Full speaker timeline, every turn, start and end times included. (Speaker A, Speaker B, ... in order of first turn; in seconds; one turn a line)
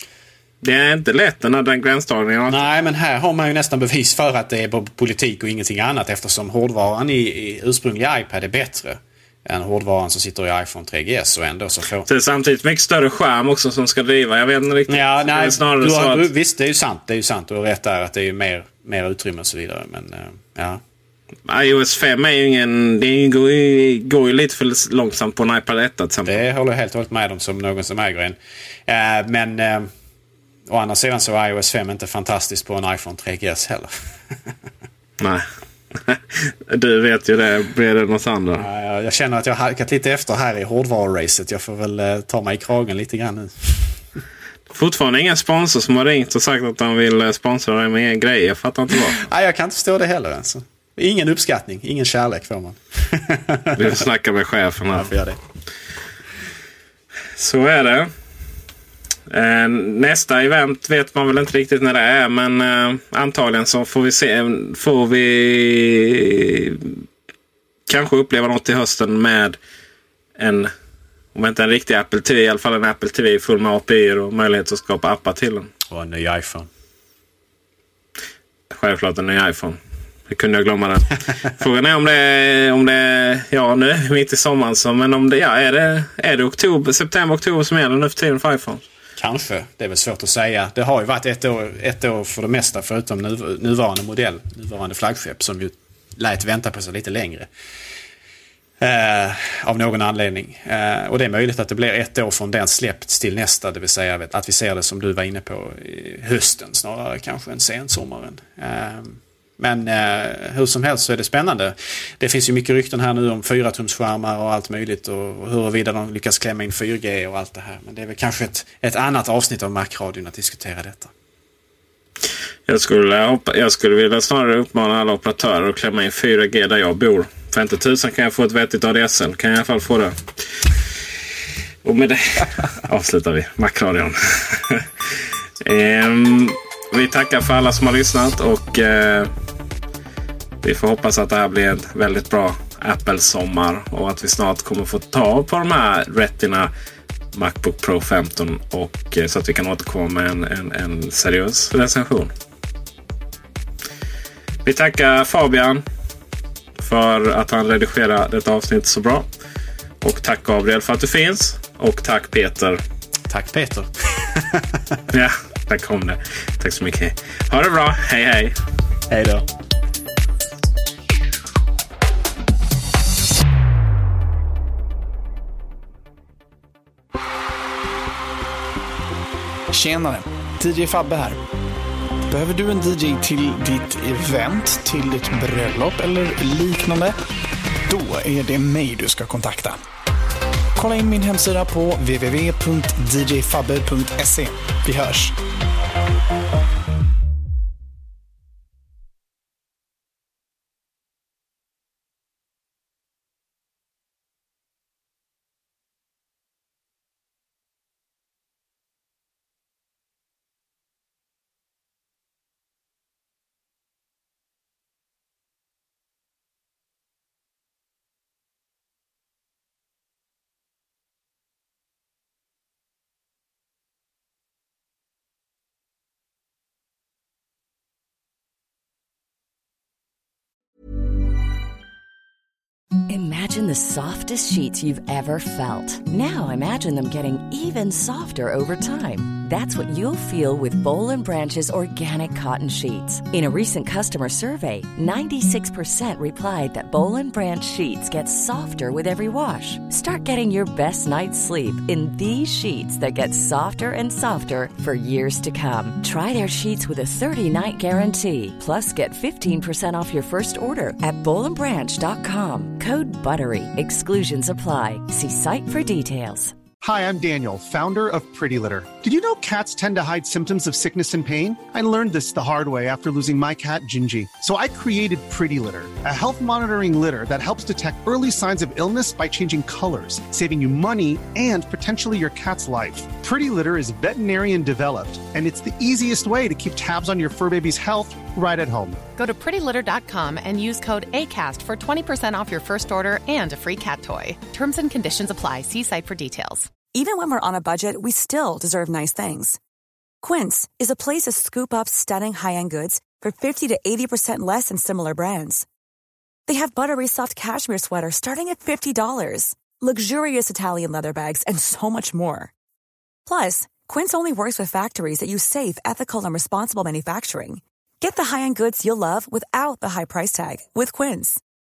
Speaker A: 0.6-2.6
Speaker B: 2.5-12.1
Speaker A: 12.1-16.3
Speaker B: 14.9-20.8
Speaker A: 21.5-26.4
Speaker B: 26.3-28.4
Speaker B: 28.9-29.9
Speaker B: 30.7-34.4
Speaker A: 35.2-38.7
Speaker B: 38.6-44.0
Speaker A: 44.7-49.2
Speaker B: 49.2-53.9
Speaker A: 53.8-55.1
Speaker B: 54.9-55.4
Speaker A: 57.4-58.1
Speaker A: 59.3-67.0
Speaker A: 67.9-69.6
Speaker A: 70.4-70.7
Speaker A: 71.3-75.7
Speaker B: 75.9-76.7
Speaker A: 78.7-88.8
Speaker B: 89.2-97.5
Speaker B: 98.8-121.1
Speaker A: 122.7-130.3
Speaker A: 131.8-134.9
Speaker A: 135.6-139.3
Speaker A: 140.6-146.7
Speaker A: 147.3-152.3
Speaker A: 154.7-155.8
Speaker A: 156.8-159.3
Speaker A: 160.0-162.8
Speaker B: 163.3-164.9
Speaker A: 165.1-168.6
Speaker B: 169.1-169.4
Speaker C: 179.7-181.4
Speaker C: 182.3-187.1
Speaker C: 187.9-189.8
Speaker C: 190.8-195.3
Speaker D: 233.1-266.6
Speaker E: 266.8-289.0
Speaker F: 289.2-296.7
Speaker G: 296.9-299.6
Speaker G: 300.2-305.7
Speaker G: 306.5-312.5
Speaker G: 313.3-321.4